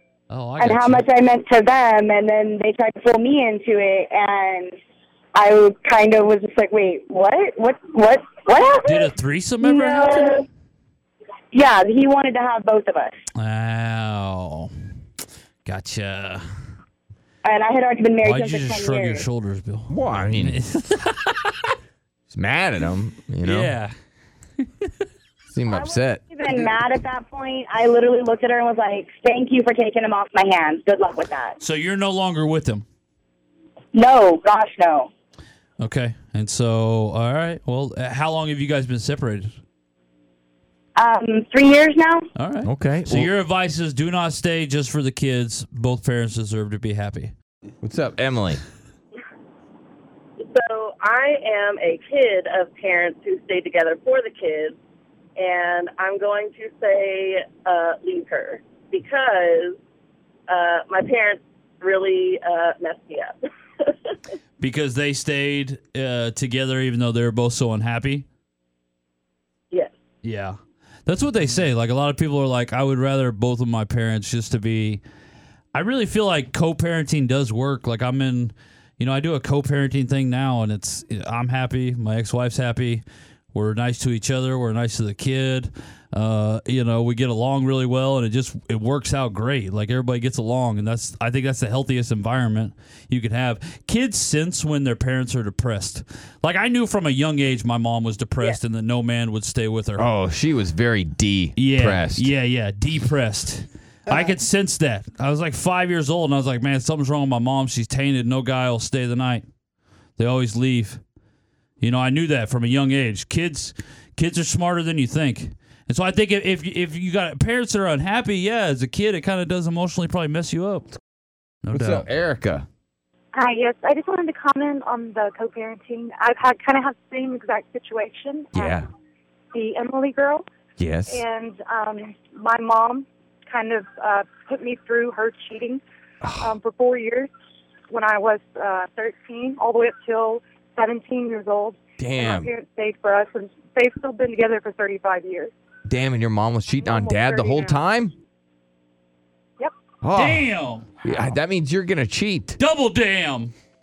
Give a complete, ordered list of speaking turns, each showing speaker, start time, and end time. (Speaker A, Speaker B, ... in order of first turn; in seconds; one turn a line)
Speaker A: 0.3-1.0
Speaker B: 0.6-4.8
Speaker B: 5.3-9.1
Speaker A: 8.8-10.4
Speaker B: 9.6-10.4
Speaker B: 11.5-13.2
Speaker A: 13.3-14.7
Speaker A: 15.6-16.4
Speaker B: 17.4-19.2
Speaker A: 18.2-21.7
Speaker C: 19.9-20.6
Speaker C: 22.3-23.7
Speaker A: 23.4-23.9
Speaker A: 24.6-25.0
Speaker C: 25.5-26.7
Speaker B: 25.7-31.6
Speaker A: 31.6-32.8
Speaker B: 33.9-35.1
Speaker A: 35.8-39.5
Speaker B: 41.0-42.3
Speaker A: 42.4-47.3
Speaker C: 42.6-43.3
Speaker C: 47.8-48.6
Speaker D: 50.4-54.7
Speaker D: 55.4-59.8
Speaker D: 60.5-63.3
Speaker A: 64.6-68.2
Speaker A: 70.2-75.0
Speaker A: 75.7-100.1
Speaker C: 100.0-102.3
Speaker A: 101.5-109.4
Speaker A: 110.2-111.0
Speaker A: 111.8-120.9
Speaker A: 121.6-122.1
Speaker C: 121.7-122.7
Speaker E: 123.3-128.8
Speaker C: 128.5-128.8
Speaker E: 129.5-130.4
Speaker C: 130.8-131.2
Speaker E: 131.1-135.8
Speaker C: 136.2-136.5
Speaker E: 136.4-137.3
Speaker E: 137.9-145.5
Speaker C: 142.0-142.5
Speaker C: 145.8-148.1
Speaker E: 146.8-147.8
Speaker C: 150.0-150.5
Speaker A: 150.1-151.0
Speaker C: 151.0-152.6
Speaker A: 152.6-153.5